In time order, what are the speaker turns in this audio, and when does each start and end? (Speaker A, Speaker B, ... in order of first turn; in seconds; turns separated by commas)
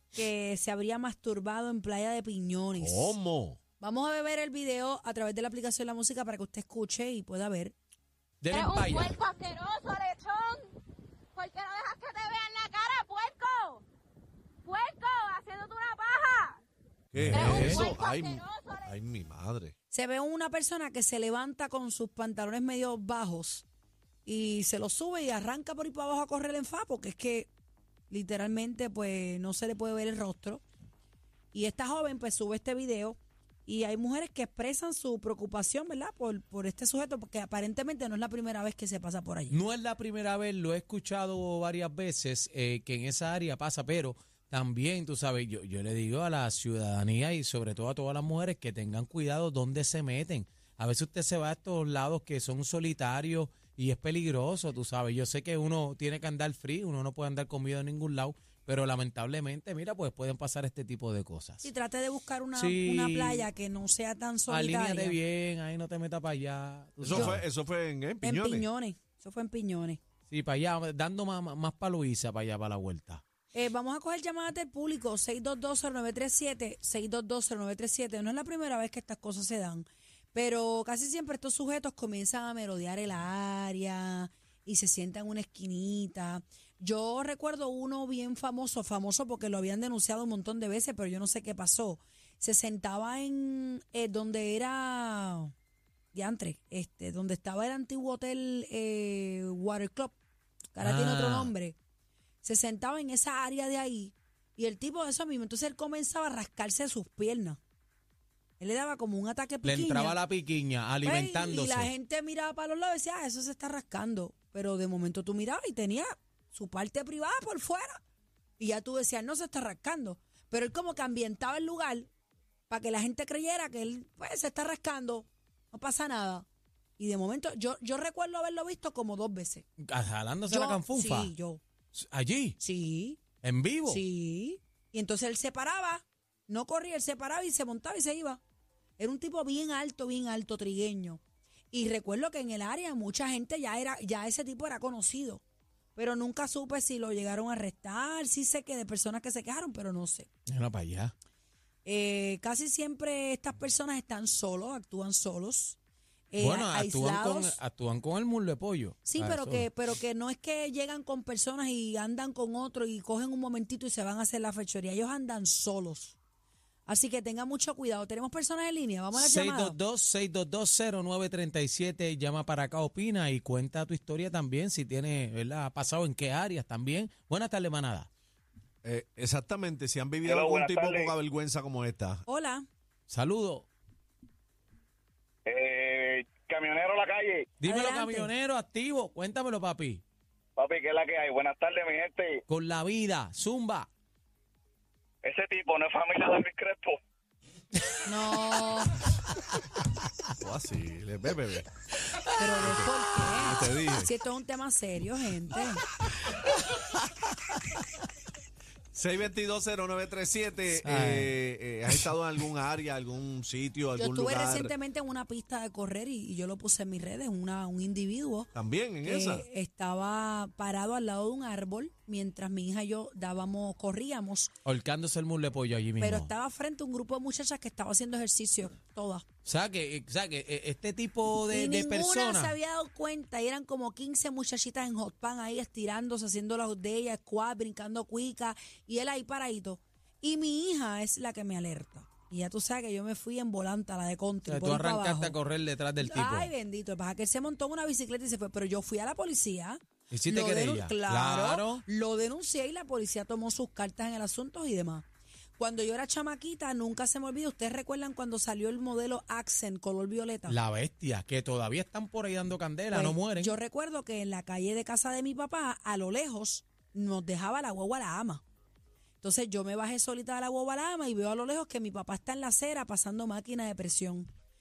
Speaker A: 0.1-3.2, Speaker B: 2.7-3.6, Speaker A: 3.8-7.7, Speaker C: 8.4-9.2, Speaker D: 8.5-10.7, Speaker D: 11.3-13.8, Speaker D: 14.6-16.6, Speaker B: 17.1-19.7, Speaker C: 17.2-17.9, Speaker D: 17.3-18.9, Speaker A: 19.9-23.6, Speaker A: 24.2-27.5, Speaker A: 28.1-30.6, Speaker A: 31.5-39.6, Speaker C: 39.5-61.6, Speaker A: 61.6-65.2, Speaker C: 62.5-63.5, Speaker C: 64.5-67.4, Speaker B: 67.0-68.6, Speaker A: 67.1-67.4, Speaker A: 68.2-70.0, Speaker C: 70.3-73.2, Speaker A: 73.5-95.5, Speaker A: 96.1-100.2, Speaker A: 100.7-101.8, Speaker C: 100.8-101.5, Speaker A: 102.4-107.6, Speaker A: 108.6-110.2, Speaker C: 109.6-111.9, Speaker A: 111.0-118.0, Speaker A: 118.6-122.1, Speaker A: 122.7-126.5, Speaker A: 127.0-129.6, Speaker C: 129.9-131.3, Speaker A: 130.5-131.6, Speaker C: 131.9-132.6, Speaker A: 132.6-133.2, Speaker C: 133.4-134.0, Speaker A: 133.9-138.4, Speaker A: 139.0-145.4, Speaker A: 145.9-150.3, Speaker C: 150.5-151.1, Speaker A: 151.8-155.8, Speaker A: 156.3-157.6, Speaker C: 156.4-159.7, Speaker A: 159.1-166.2, Speaker A: 166.8-169.8, Speaker C: 169.1-178.1, Speaker B: 178.8-182.2, Speaker E: 180.2-181.1, Speaker A: 182.3-182.7, Speaker C: 183.1-183.7, Speaker E: 185.4-187.5, Speaker C: 187.6-190.0, Speaker A: 187.6-188.3, Speaker E: 190.6-192.4, Speaker C: 192.5-193.9, Speaker E: 195.2-197.0, Speaker A: 198.0-198.9, Speaker B: 200.4-201.7, Speaker C: 202.1-203.5, Speaker A: 202.4-205.8, Speaker B: 202.6-204.1, Speaker C: 207.5-207.8, Speaker B: 208.9-214.7, Speaker C: 210.8-211.4, Speaker A: 213.9-218.5, Speaker B: 218.5-219.5, Speaker A: 219.0-224.5, Speaker C: 224.6-226.3, Speaker A: 226.0-229.2, Speaker C: 229.4-232.5, Speaker A: 231.5-245.3, Speaker C: 244.4-246.5, Speaker A: 246.0-255.1, Speaker C: 250.1-251.8, Speaker A: 255.6-260.6, Speaker C: 260.5-263.5, Speaker A: 262.9-268.4, Speaker A: 269.2-274.3